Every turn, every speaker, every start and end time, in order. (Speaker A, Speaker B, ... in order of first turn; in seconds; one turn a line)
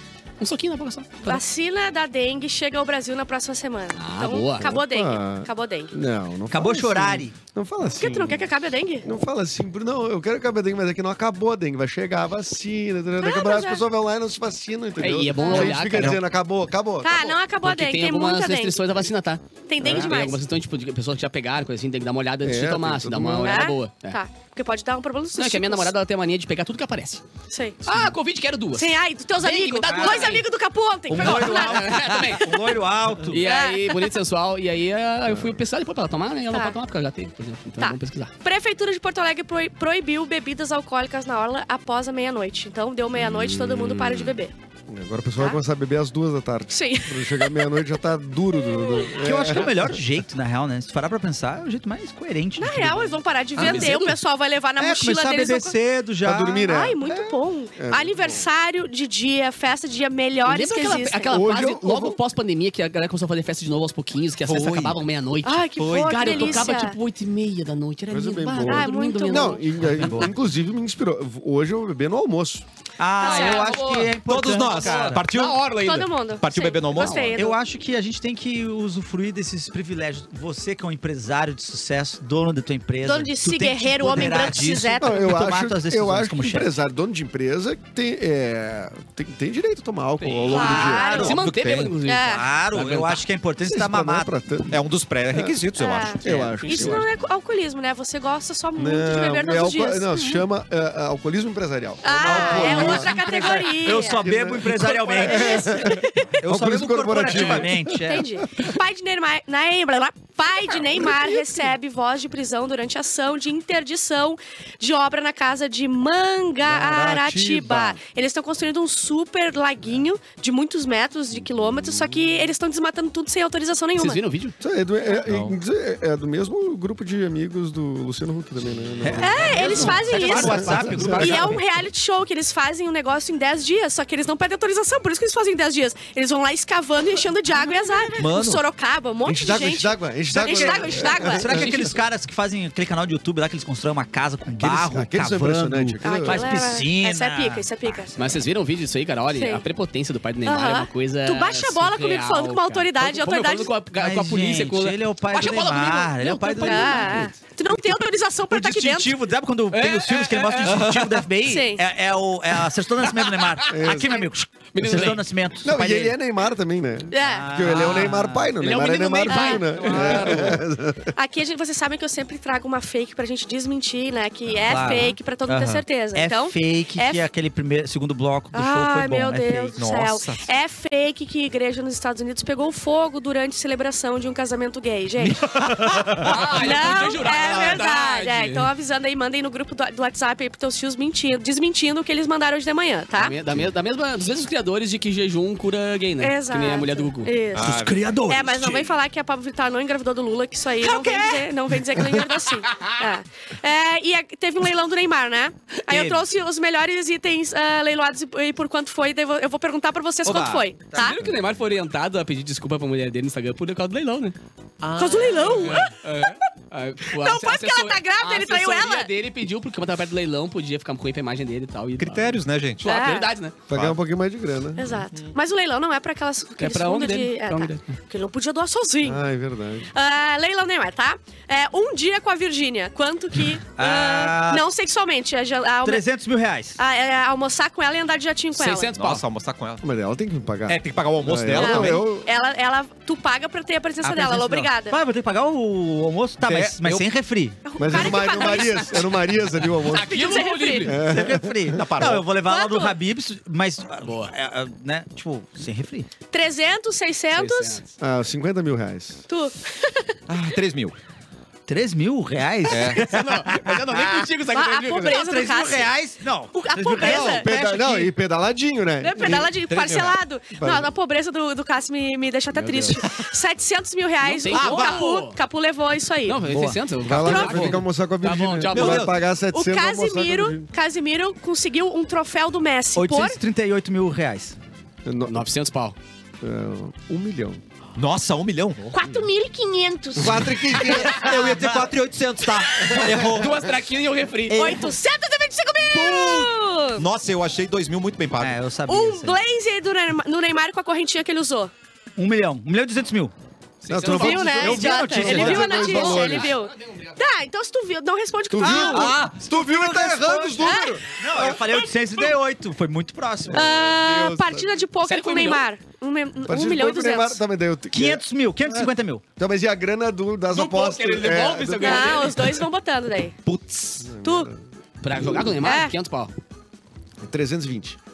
Speaker A: 0.4-1.4
Speaker B: 1.2-5.9
Speaker A: 3.9-4.7
Speaker C: 4.6-8.5
Speaker D: 6.5-7.3
Speaker B: 8.0-9.1
Speaker C: 9.0-17.4
Speaker B: 13.2-13.8
Speaker A: 15.0-16.2
Speaker B: 15.3-15.8
Speaker E: 15.9-16.2
Speaker B: 17.0-19.1
Speaker A: 17.6-24.2
Speaker B: 19.7-20.4
Speaker C: 19.8-20.2
Speaker C: 22.4-23.6
Speaker B: 23.4-25.9
Speaker A: 25.3-27.2
Speaker B: 27.5-27.8
Speaker A: 27.8-30.4
Speaker B: 28.7-32.3
Speaker D: 29.8-30.4
Speaker D: 31.1-33.4
Speaker A: 31.1-38.3
Speaker B: 33.3-34.2
Speaker B: 36.5-36.8
Speaker B: 37.8-44.5
Speaker A: 43.2-44.3
Speaker C: 44.9-50.0
Speaker B: 46.7-48.0
Speaker B: 48.8-49.1
Speaker D: 49.2-53.1
Speaker B: 52.6-55.7
Speaker E: 53.5-54.1
Speaker A: 53.6-54.2
Speaker D: 54.8-56.7
Speaker C: 56.2-58.5
Speaker B: 56.6-61.4
Speaker A: 60.5-70.3
Speaker C: 61.3-62.2
Speaker E: 64.4-65.0
Speaker B: 65.4-67.0
Speaker E: 65.8-66.6
Speaker C: 68.1-72.6
Speaker B: 68.6-70.1
Speaker D: 69.9-70.3
Speaker D: 73.0-75.2
Speaker B: 73.2-74.1
Speaker A: 73.2-76.1
Speaker E: 74.2-75.7
Speaker B: 75.7-77.6
Speaker E: 76.4-77.4
Speaker A: 76.9-77.4
Speaker D: 77.3-86.7
Speaker B: 83.0-85.2
Speaker C: 85.0-91.2
Speaker A: 90.2-93.2
Speaker E: 90.4-92.0
Speaker B: 90.5-91.4
Speaker D: 90.5-91.3
Speaker B: 92.0-92.5
Speaker D: 92.2-94.3
Speaker E: 92.7-93.2
Speaker C: 93.6-94.8
Speaker E: 94.7-96.8
Speaker B: 95.8-100.4
Speaker C: 96.2-97.1
Speaker A: 96.6-97.0
Speaker C: 98.8-103.2
Speaker B: 102.0-104.3
Speaker D: 102.2-108.3
Speaker C: 104.0-108.0
Speaker A: 104.6-105.5
Speaker B: 105.1-106.4
Speaker A: 107.3-107.6
Speaker B: 108.0-124.2
Speaker C: 116.6-118.0
Speaker A: 124.0-124.5
Speaker C: 124.6-131.4
Speaker E: 125.2-125.5
Speaker D: 129.0-131.6
Speaker B: 129.2-141.7
Speaker A: 129.4-131.6
Speaker E: 138.2-138.6
Speaker C: 139.2-141.9
Speaker D: 140.4-148.3
Speaker A: 141.4-141.9
Speaker C: 144.6-146.7
Speaker B: 146.0-148.1
Speaker A: 148.2-157.2
Speaker B: 149.3-149.6
Speaker B: 150.4-153.7
Speaker D: 154.0-157.3
Speaker B: 156.6-159.1
Speaker D: 158.5-166.2
Speaker A: 159.7-161.3
Speaker B: 161.4-161.8
Speaker A: 163.1-163.7
Speaker C: 163.7-164.2
Speaker A: 164.7-165.2
Speaker C: 165.6-171.1
Speaker B: 167.1-167.7
Speaker D: 167.2-168.5
Speaker A: 168.6-170.6
Speaker B: 169.2-170.0
Speaker D: 169.8-170.5
Speaker B: 171.1-177.2
Speaker D: 174.7-179.8
Speaker B: 178.5-193.3
Speaker E: 179.8-180.4
Speaker E: 185.2-186.5
Speaker A: 186.2-188.7
Speaker A: 193.1-197.3
Speaker B: 196.2-211.2
Speaker E: 197.5-198.1
Speaker D: 197.6-198.8
Speaker D: 200.8-201.5
Speaker A: 202.7-203.0
Speaker D: 205.9-206.2
Speaker E: 210.2-210.7
Speaker D: 210.3-211.2
Speaker A: 210.9-214.3
Speaker E: 214.8-215.9
Speaker B: 214.9-216.3
Speaker A: 215.5-223.6
Speaker B: 217.1-219.1
Speaker E: 222.0-222.9
Speaker B: 222.8-223.3
Speaker C: 223.7-224.8
Speaker E: 223.7-224.0
Speaker B: 224.8-229.2
Speaker A: 226.6-227.9
Speaker C: 229.0-229.9
Speaker B: 229.9-236.0
Speaker D: 233.8-234.7
Speaker D: 235.8-236.8
Speaker B: 236.8-238.9
Speaker A: 238.6-239.2
Speaker E: 239.0-239.8
Speaker C: 239.8-242.3
Speaker E: 240.7-242.1
Speaker B: 241.5-245.0
Speaker D: 244.0-247.6
Speaker E: 246.4-247.1
Speaker B: 247.7-249.2
Speaker C: 247.8-251.8
Speaker A: 249.8-251.0
Speaker B: 249.9-251.0
Speaker D: 251.0-256.1
Speaker E: 251.7-252.3
Speaker B: 252.4-253.0
Speaker A: 254.0-254.3
Speaker B: 256.3-257.8
Speaker A: 257.4-257.8
Speaker C: 258.0-259.2
Speaker B: 259.3-260.1
Speaker E: 260.3-260.9
Speaker D: 261.7-264.3
Speaker E: 262.6-263.1
Speaker A: 262.7-265.2
Speaker B: 264.5-265.9
Speaker D: 265.1-268.1
Speaker B: 266.5-267.5
Speaker C: 267.0-269.5
Speaker B: 269.0-276.4
Speaker E: 269.2-270.2
Speaker C: 270.5-270.9
Speaker C: 272.5-273.0
Speaker A: 274.2-275.4
Speaker E: 274.5-275.1
Speaker A: 276.2-279.1
Speaker D: 276.4-276.8
Speaker C: 277.0-280.7
Speaker B: 277.0-277.8
Speaker E: 278.7-279.2
Speaker B: 279.5-283.4
Speaker D: 282.9-284.6
Speaker C: 285.0-285.4
Speaker A: 285.3-285.9
Speaker C: 286.4-287.6
Speaker E: 287.9-288.9
Speaker B: 288.9-291.0
Speaker C: 290.1-291.3
Speaker E: 290.8-293.6
Speaker D: 291.1-291.9
Speaker C: 292.9-293.4
Speaker A: 293.1-294.8
Speaker B: 294.5-297.1
Speaker D: 294.5-294.9
Speaker E: 295.9-298.6
Speaker D: 298.4-299.4
Speaker B: 298.9-301.7
Speaker D: 302.1-303.3
Speaker A: 303.8-307.1
Speaker C: 303.9-306.5
Speaker D: 304.0-306.2
Speaker B: 304.0-309.1
Speaker C: 308.5-311.7
Speaker D: 308.6-313.7
Speaker E: 308.8-309.5
Speaker B: 310.6-311.0
Speaker C: 313.5-314.8
Speaker B: 313.5-317.4
Speaker A: 315.0-315.6
Speaker C: 316.4-322.3
Speaker D: 317.9-319.2
Speaker A: 320.5-322.6
Speaker B: 321.8-323.4
Speaker E: 323.4-324.1
Speaker C: 324.0-324.6
Speaker B: 324.2-324.5
Speaker A: 325.0-326.3
Speaker B: 325.6-325.9
Speaker C: 327.2-328.0